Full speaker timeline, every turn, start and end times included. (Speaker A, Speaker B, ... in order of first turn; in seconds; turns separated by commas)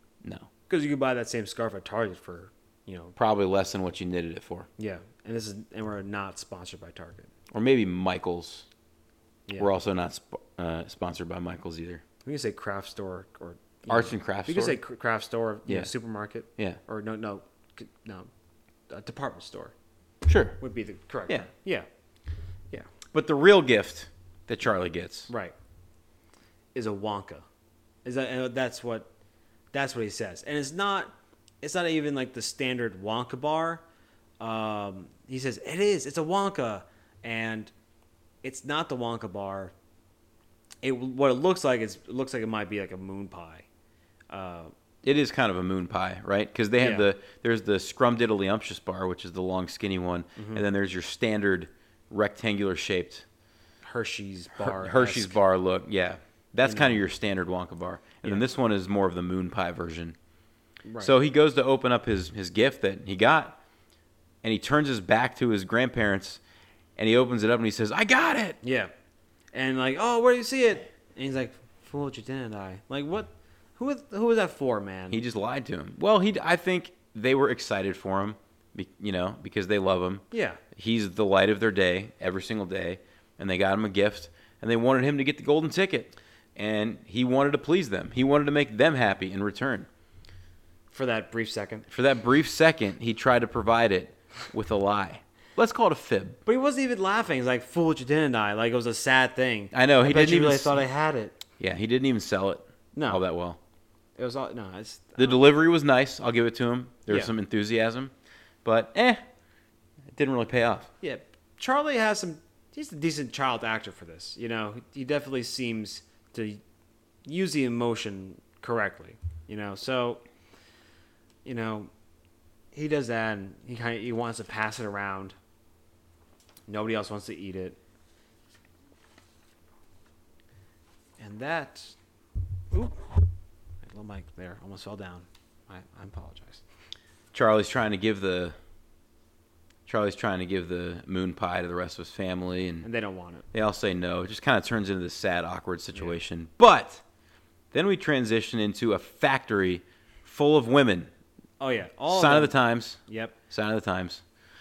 Speaker A: 0.2-0.5, Speaker B: 0.7-3.1, Speaker A: 3.2-4.7, Speaker B: 4.8-7.3, Speaker A: 7.5-8.7, Speaker A: 9.6-12.0, Speaker B: 12.2-18.3, Speaker A: 13.9-14.8, Speaker B: 18.9-19.7, Speaker A: 20.3-20.6, Speaker B: 20.6-21.9, Speaker A: 23.1-25.3, Speaker B: 25.3-25.5, Speaker B: 26.8-27.4, Speaker B: 28.1-29.1, Speaker B: 29.7-33.8, Speaker B: 34.4-37.7, Speaker B: 38.4-39.7, Speaker B: 40.8-43.7, Speaker B: 44.3-44.7, Speaker A: 45.0-53.2, Speaker B: 46.8-47.1, Speaker B: 50.4-50.6, Speaker B: 53.8-55.4, Speaker A: 54.6-60.2, Speaker B: 56.7-57.0, Speaker B: 60.9-61.1, Speaker A: 61.0-63.6, Speaker A: 64.4-66.4, Speaker A: 67.0-68.6, Speaker B: 68.6-68.9, Speaker B: 69.5-75.2, Speaker A: 75.1-89.9, Speaker B: 80.3-80.6, Speaker B: 90.9-91.9, Speaker A: 91.9-96.4, Speaker B: 96.5-101.4, Speaker A: 99.7-100.8, Speaker A: 101.6-103.6, Speaker B: 102.9-103.2, Speaker B: 104.2-105.4, Speaker A: 105.2-108.1, Speaker B: 107.1-107.3, Speaker A: 108.7-109.2, Speaker A: 110.1-110.9, Speaker B: 111.0-116.6, Speaker B: 117.2-120.2, Speaker B: 121.5-121.9, Speaker B: 122.7-125.3, Speaker B: 126.7-127.8, Speaker B: 131.2-132.0, Speaker B: 132.7-133.0, Speaker B: 133.8-136.6, Speaker A: 137.3-138.6, Speaker A: 139.9-142.9, Speaker B: 142.8-143.5, Speaker A: 143.5-147.0, Speaker A: 147.7-151.1, Speaker B: 151.6-152.6, Speaker A: 152.1-154.2, Speaker B: 153.1-153.4